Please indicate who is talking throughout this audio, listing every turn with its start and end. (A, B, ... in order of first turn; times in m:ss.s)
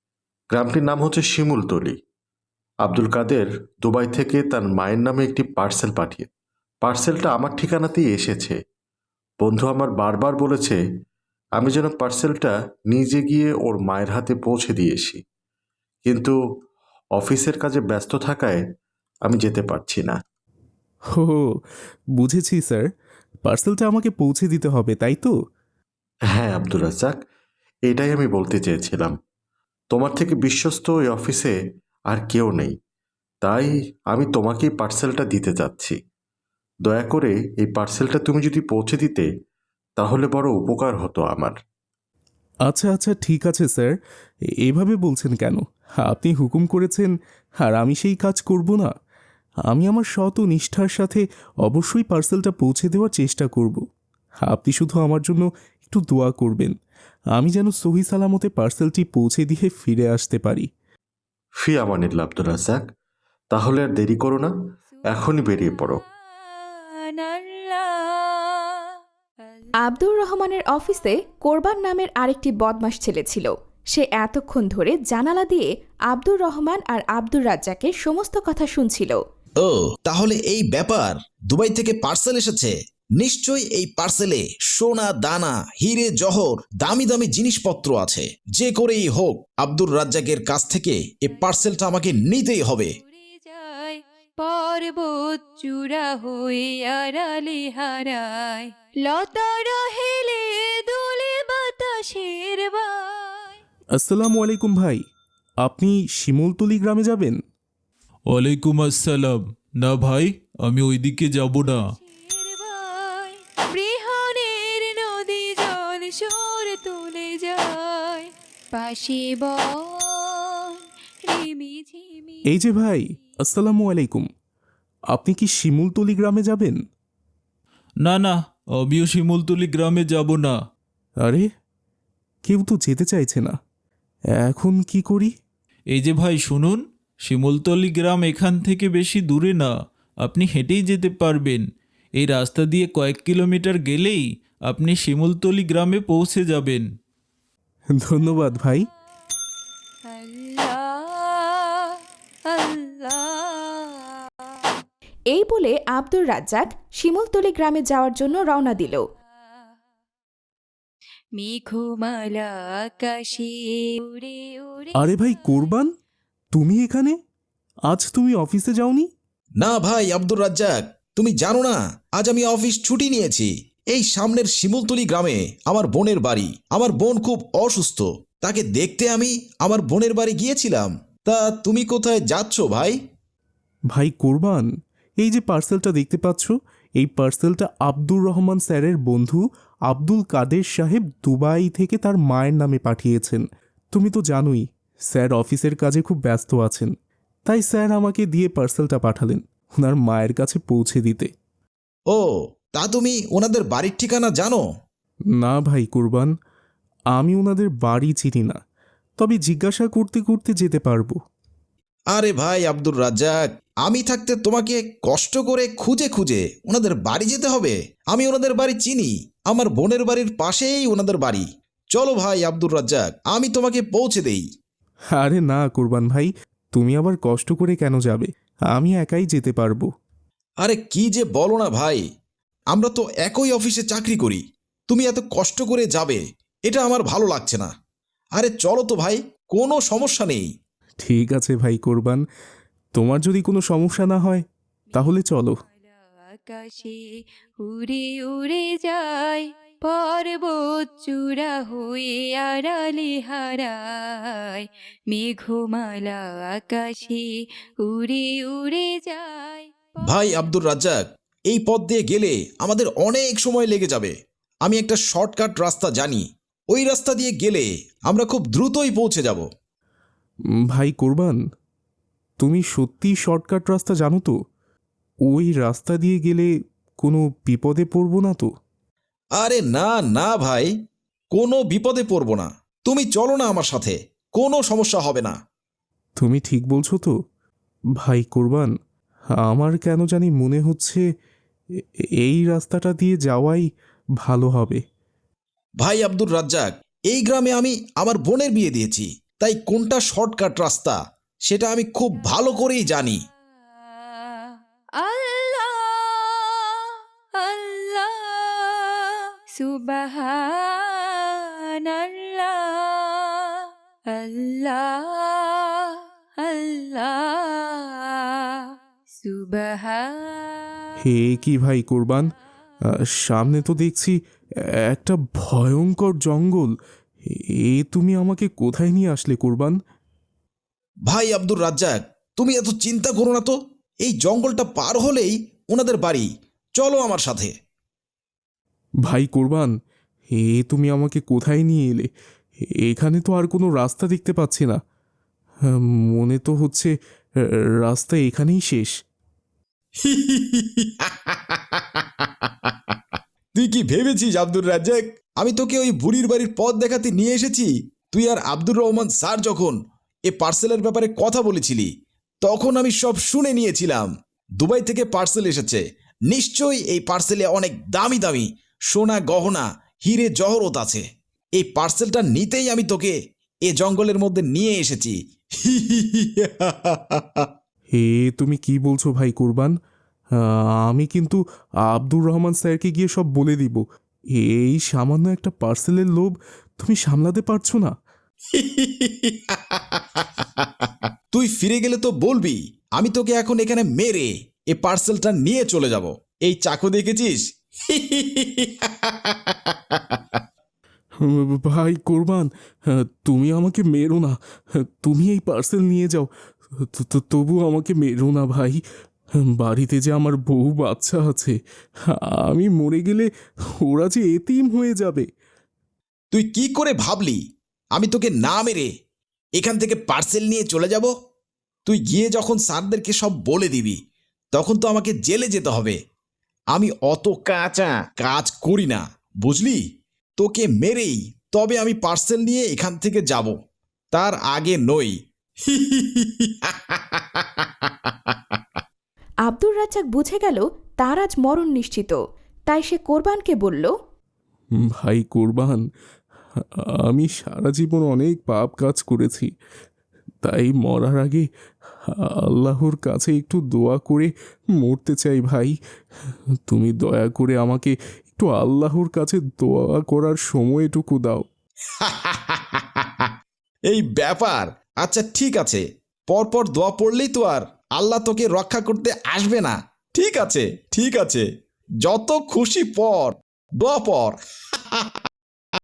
0:00.5-0:02.0 A
0:02.8-0:06.3 A
0:06.8-0:08.6 A
0:09.4-0:10.8 A
0:11.6-0:15.2 A
0:16.0-0:16.4 A
0:17.2-0:18.6 A
0:19.2-0:20.2 A
0:21.1-0:21.6 B
0:22.2-0:22.9 B
0:23.4-0:25.3 B
0:26.3-0:27.2 A
0:27.9-0:29.2 A
0:29.9-0:31.6 A
0:32.1-0:32.8 A
0:33.4-0:36.0 A
0:36.9-0:39.3 A
0:40.0-0:41.6 A
0:42.7-0:43.9 B
0:44.6-0:48.9 B
0:49.7-0:53.8 B
0:54.4-0:56.8 B
0:57.4-1:00.7 B
1:01.6-1:02.8 A
1:03.5-1:04.5 A
1:05.1-1:06.0 A
1:06.5-1:08.9 C
1:09.8-1:19.2 D
1:19.6-1:33.0 E
1:33.1-1:43.6 C
1:44.0-1:45.0 B
1:45.6-1:47.4 B
1:48.3-1:51.8 F
1:52.0-2:02.4 C
2:02.5-2:04.3 B
2:05.1-2:06.8 B
2:08.0-2:10.6 F
2:12.5-2:13.6 B
2:14.4-2:15.3 B
2:16.0-2:19.7 F
2:20.2-2:21.6 F
2:22.2-2:26.9 F
2:28.0-2:28.9 B
2:30.1-2:34.3 C
2:35.3-2:39.0 D
2:41.4-2:45.0 C
2:45.0-2:45.9 B
2:46.5-2:47.2 B
2:47.9-2:49.1 B
2:49.6-3:03.0 E
3:03.9-3:04.7 B
3:05.2-3:16.9 B
3:17.5-3:21.3 B
3:22.1-3:24.6 E
3:25.4-3:26.3 B
3:27.2-3:28.6 B
3:29.2-3:31.2 B
3:32.1-3:44.5 E
3:45.2-3:49.9 B
3:50.6-3:52.0 E
3:52.7-3:57.7 E
3:58.4-4:00.5 E
4:01.0-4:02.2 B
4:03.0-4:05.6 B
4:05.8-4:07.0 C
4:07.6-4:17.3 C
4:17.8-4:20.0 C
4:20.0-4:29.5 E
4:30.7-4:31.4 B
4:32.4-4:34.4 B
4:35.3-4:38.5 B
4:39.4-4:40.7 E
4:41.3-4:45.4 E
4:46.2-4:47.1 B
4:48.0-4:48.7 B
4:49.4-4:51.0 B
4:52.2-4:53.7 B
4:54.2-4:54.8 B
4:55.8-5:03.2 E
5:04.0-5:20.8 C
5:21.0-5:22.3 B
5:23.3-5:24.2 B
5:24.9-5:26.7 B
5:27.3-5:29.8 B
5:31.1-5:37.6 E
5:39.0-5:39.7 B
5:40.3-5:42.1 B
5:42.8-5:44.8 B
5:45.7-5:46.9 B
5:47.4-5:48.9 B
5:50.0-6:01.9 E
6:02.4-6:11.0 E
6:11.6-6:17.5 E
6:17.9-6:19.7 B
6:20.4-6:23.8 B
6:24.4-6:27.9 B
6:28.5-6:40.4 E
6:41.2-6:46.3 B
6:46.8-6:48.8 B
6:49.4-6:51.6 B
6:52.1-6:53.3 B
6:53.8-6:55.3 B
6:56.3-6:57.4 E
6:58.0-6:58.9 E
6:59.6-7:01.1 E
7:01.9-7:04.0 E
7:04.5-7:06.0 E
7:06.7-7:09.8 E
7:10.4-7:13.6 E
7:14.1-7:18.6 E
7:19.5-7:22.2 D
7:22.7-7:23.9 D
7:24.8-7:25.8 B
7:26.6-7:29.5 B
7:30.4-7:31.5 B
7:32.1-7:35.8 B
7:36.7-7:41.4 B
7:42.0-7:43.3 E
7:43.9-7:51.5 E
7:52.0-7:55.2 E